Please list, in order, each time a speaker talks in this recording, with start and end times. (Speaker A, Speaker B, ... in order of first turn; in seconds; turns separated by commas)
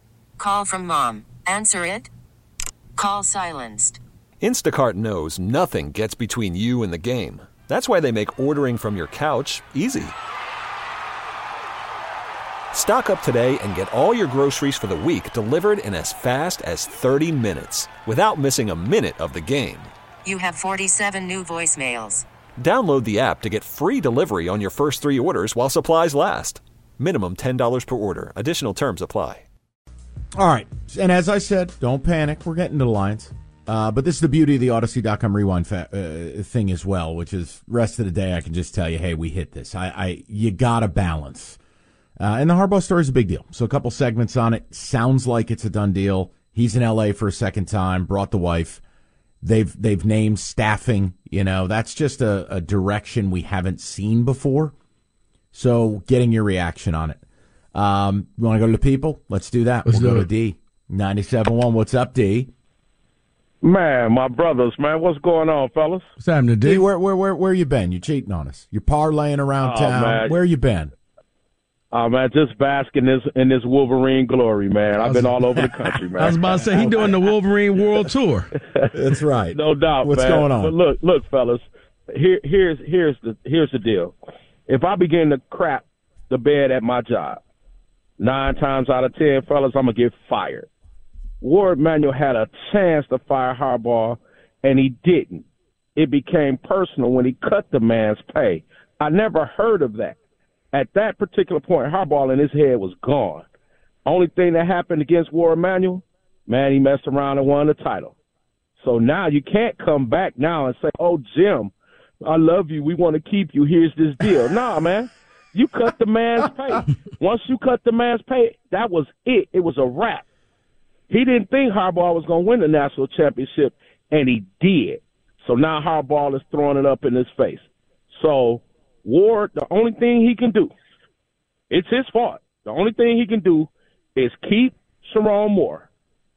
Speaker A: 0.4-2.1, Speaker A: 3.0-4.0, Speaker B: 4.4-10.2, Speaker B: 12.7-19.9, Speaker A: 20.2-22.2, Speaker B: 22.6-29.4, Speaker C: 30.4-41.6, Speaker C: 42.2-48.8, Speaker C: 49.4-54.7, Speaker C: 55.5-57.2, Speaker C: 57.8-62.5, Speaker D: 59.9-60.3, Speaker E: 63.6-66.1, Speaker D: 66.2-66.8, Speaker C: 66.6-70.9, Speaker E: 69.6-70.4, Speaker E: 71.9-77.1, Speaker D: 75.0-75.3, Speaker C: 75.5-77.1, Speaker D: 76.2-78.5, Speaker E: 78.6-78.9, Speaker C: 78.9-80.8, Speaker E: 79.5-84.2, Speaker E: 84.7-87.4, Speaker E: 88.2-90.7, Speaker E: 91.4-100.2, Speaker E: 100.7-103.5, Speaker E: 104.0-108.2, Speaker E: 108.8-120.2, Speaker E: 121.1-130.7, Speaker E: 131.7-135.9